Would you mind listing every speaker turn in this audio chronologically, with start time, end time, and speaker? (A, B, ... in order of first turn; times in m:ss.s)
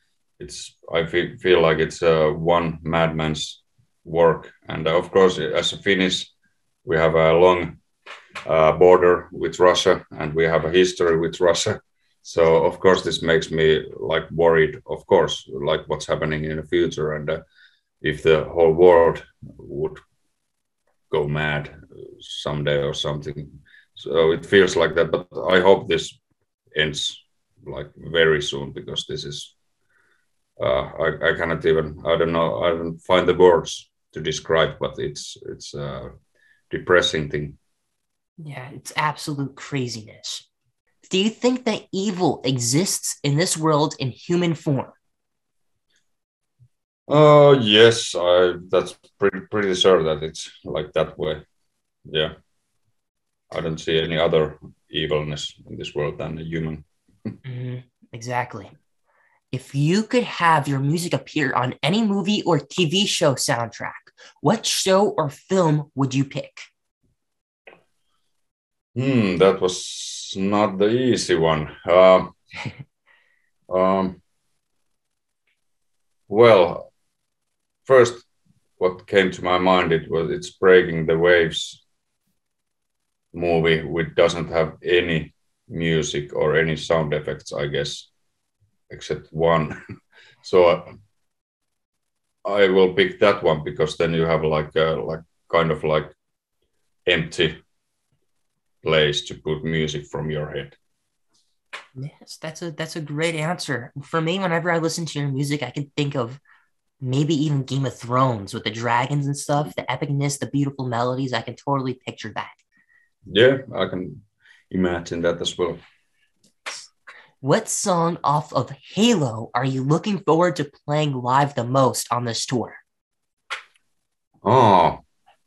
0:00.4-0:06.3 A
0:06.9-0:07.8 A
0:08.4-0:17.4 A
0:18.0-0:20.0 A
0:21.1-0:26.2 A
0:26.8-0:29.5 A
0:30.6-0:36.1 A
0:36.7-0:37.6 A
0:38.4-0:40.5 B
0:41.1-0:45.0 B
0:47.1-0:51.4 A
0:53.5-0:56.8 A
0:57.4-0:58.7 B
0:59.5-1:06.7 B
1:08.9-1:12.3 A
1:13.7-1:14.2 A
1:16.3-1:16.9 A
1:17.9-1:18.2 A
1:18.8-1:21.8 A
1:23.3-1:28.1 A
1:28.9-1:29.8 A
1:30.4-1:30.9 A
1:32.4-1:36.1 A
1:37.1-1:37.6 A
1:38.8-1:40.8 A
1:42.0-1:46.4 B
1:47.0-1:52.6 B
1:53.3-1:55.8 A
1:57.4-2:02.8 B
2:04.4-2:05.0 A